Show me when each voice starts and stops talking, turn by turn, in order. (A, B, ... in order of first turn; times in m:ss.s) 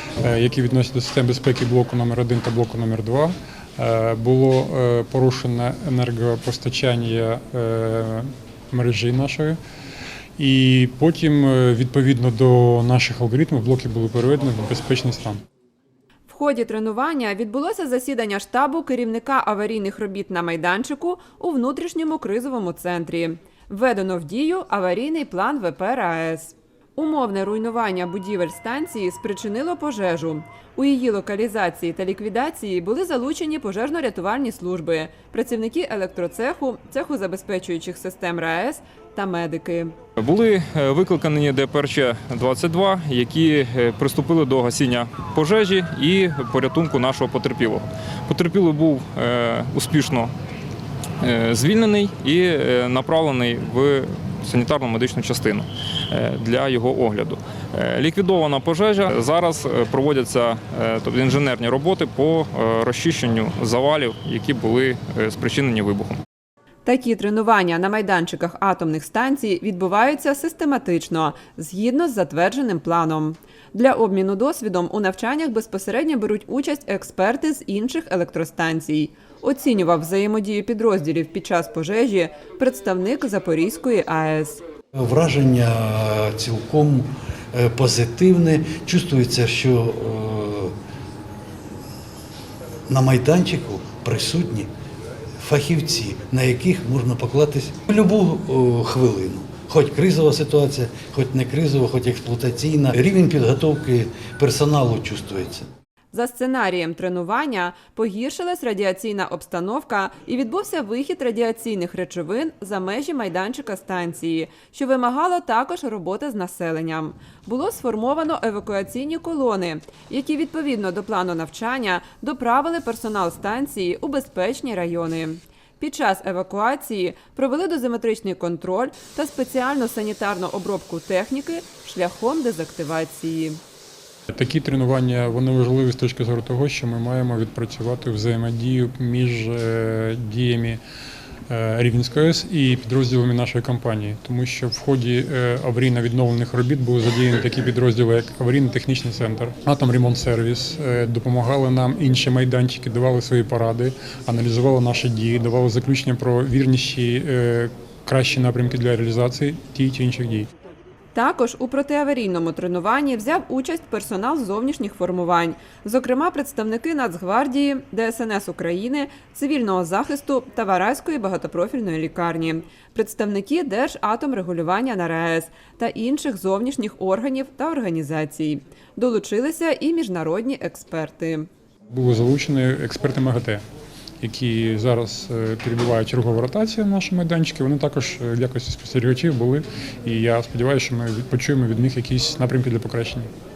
0:00.2-0:09.6 A
0:10.4-0:15.4 A
0:16.3-0:39.9 B
0:40.2-0:50.3 C
0:51.2-1:06.2 C
1:06.8-1:24.6 B
1:25.0-1:30.7 D
1:32.9-1:34.7 D
1:35.4-1:45.7 D
1:46.1-2:13.6 B
2:14.3-2:20.8 A
2:21.5-2:40.5 A
2:41.2-3:01.5 B
3:01.9-3:03.6 A
3:04.2-3:13.3 A